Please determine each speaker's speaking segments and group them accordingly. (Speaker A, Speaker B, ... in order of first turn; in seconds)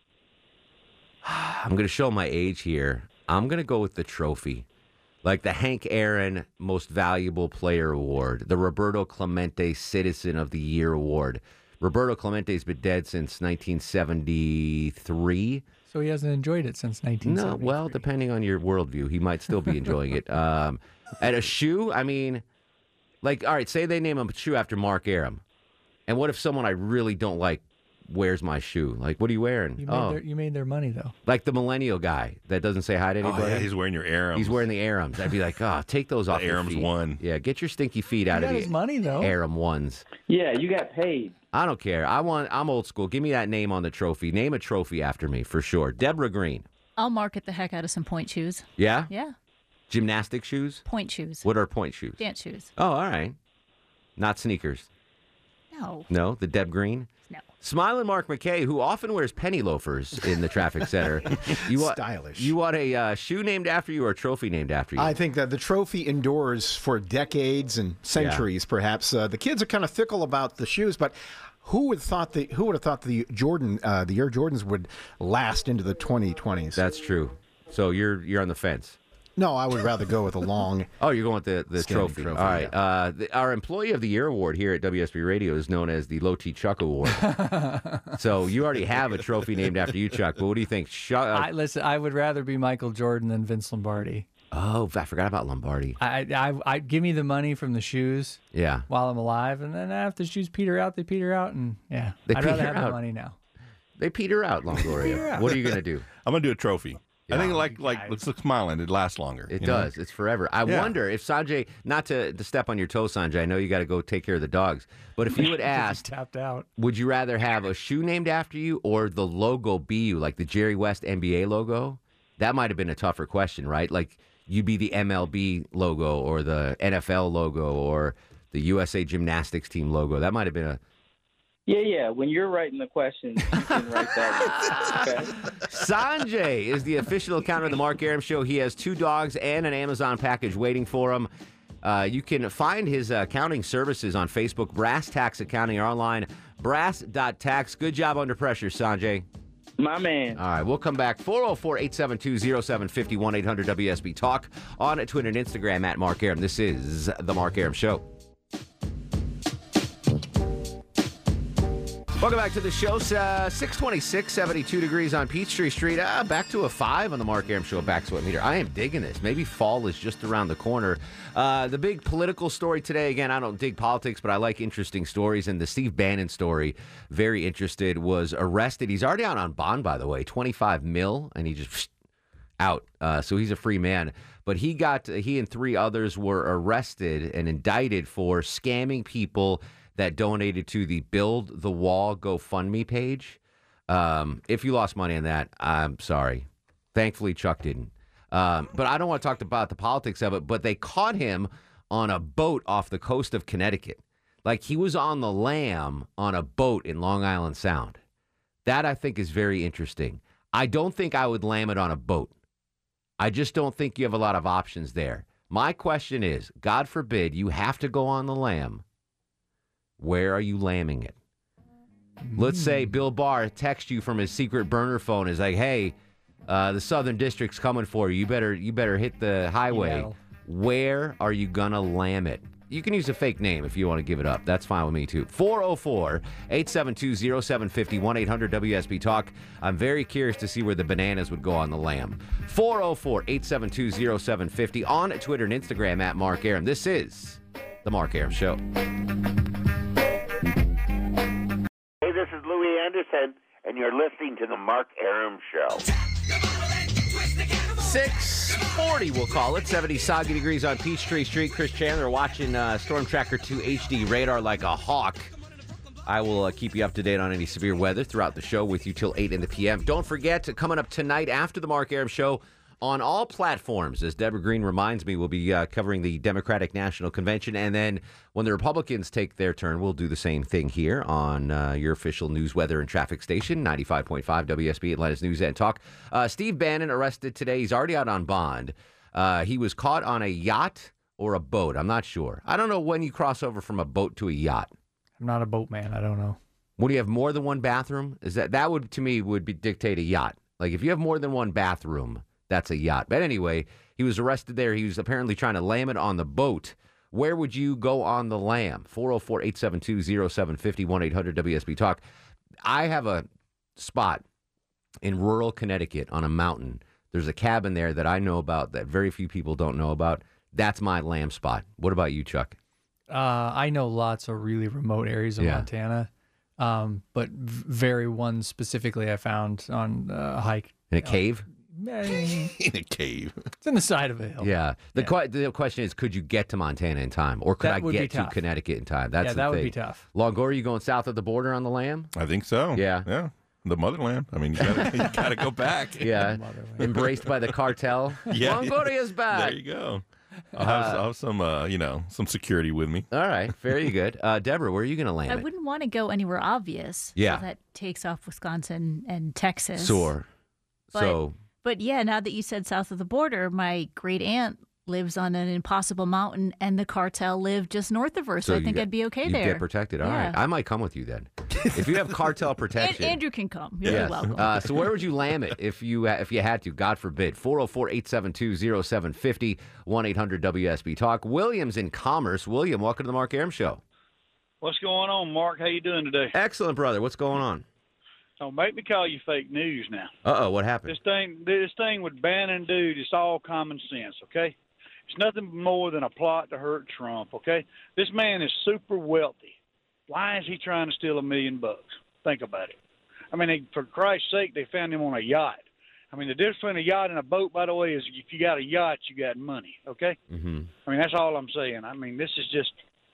Speaker A: 1.2-4.7, 5.2-15.7, 17.2-22.4, 23.2-25.4, 26.1-30.2, 31.2-33.7, 34.4-40.0, 41.5-46.7, 48.8-49.1, 49.9-50.8, 51.4-52.2, 52.8-53.4, 54.2-54.9, 56.1-57.1, 57.6-65.1, 68.2-68.5, 76.8-79.0, 81.0-87.3, 88.2-91.5, 94.5-96.0, 98.5-98.9, 102.3-103.0, 104.0-106.0, 107.3-107.6, 109.5-116.0, 116.8-130.8, 134.4-135.1, 135.6-141.3, 141.8-149.3, 150.4-158.1, 162.2-181.9, 182.6-208.0, 208.7-212.3, 213.2-218.8, 220.0-221.2, 222.4-225.9, 226.5-248.6, 257.8-265.3, 266.1-294.7, 296.8-312.0, 312.6-313.3, 313.8-314.2, 315.0-322.6, 325.4-325.6, 330.9-331.5, 334.4-342.1, 342.7-343.1, 346.0-349.6, 350.6-351.0, 353.1-355.4, 357.2-357.4, 359.8-360.3, 360.9-361.4, 368.4-373.2, 373.9-383.8, 386.3-387.6, 390.2-390.9, 410.3-410.7
Speaker B: 15.9-18.0, 29.8-31.1, 38.3-39.3, 87.1-88.1, 91.3-94.3, 96.0-103.4, 104.9-105.5, 107.6-108.3, 115.3-116.7, 222.2-223.0, 229.7-230.2, 295.2-296.4, 323.1-332.5, 333.6-335.1, 337.6-338.4, 339.2-340.0, 344.8-345.2, 346.1-346.9
Speaker C: 33.2-34.7, 36.3-37.2, 105.2-105.7, 106.2-109.9, 110.7-111.0, 332.6-333.5, 342.1-346.1, 346.9-347.3, 348.3-350.0, 350.6-353.1, 373.9-374.4
Speaker D: 40.3-41.4, 131.7-135.4, 149.8-150.4
Speaker E: 47.0-49.3, 50.9-51.5, 52.2-52.7, 55.7-56.1, 355.3-360.1, 360.9-370.4, 372.8-374.7
Speaker F: 61.7-62.5, 65.0-76.8, 79.4-80.9, 81.8-82.7
Speaker G: 252.0-255.8
Speaker H: 384.6-386.3, 388.4-390.1, 390.9-394.6, 395.1-399.6, 400.1-402.8, 403.3-410.2, 410.9-412.8